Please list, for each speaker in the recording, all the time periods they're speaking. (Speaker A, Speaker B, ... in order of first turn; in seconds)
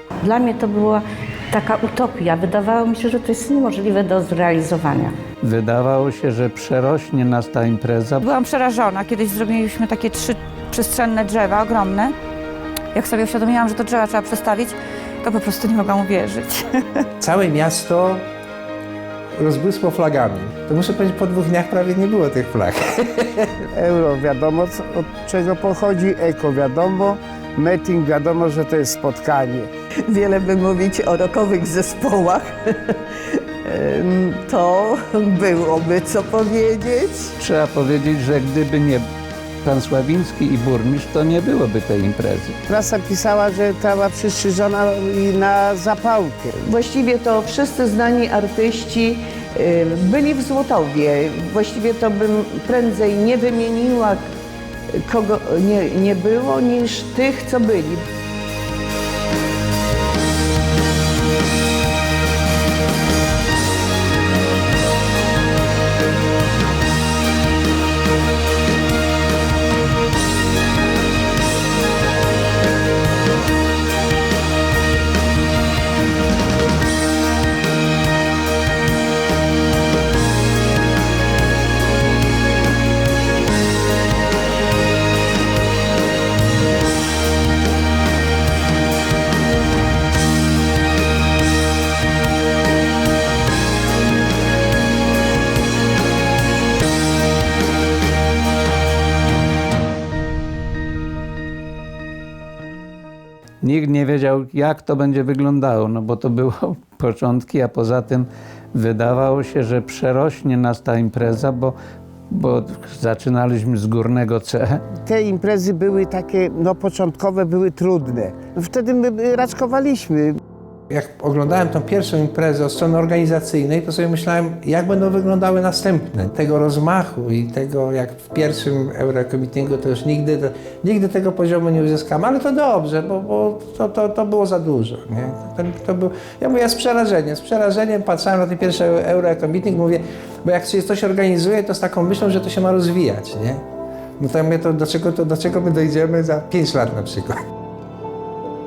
Speaker A: 0.2-5.1
Speaker B: 5.4-8.2, 37.4-39.1, 39.6-42.6, 103.6-111.7, 112.3-114.8
Speaker C: 8.2-12.1, 12.9-17.0
Speaker D: 17.2-18.3, 19.4-23.5, 120.9-143.6, 144.2-147.4
Speaker E: 23.7-29.7, 42.7-46.5, 115.0-120.4
Speaker F: 30.1-37.4, 46.6-54.2, 54.9-58.0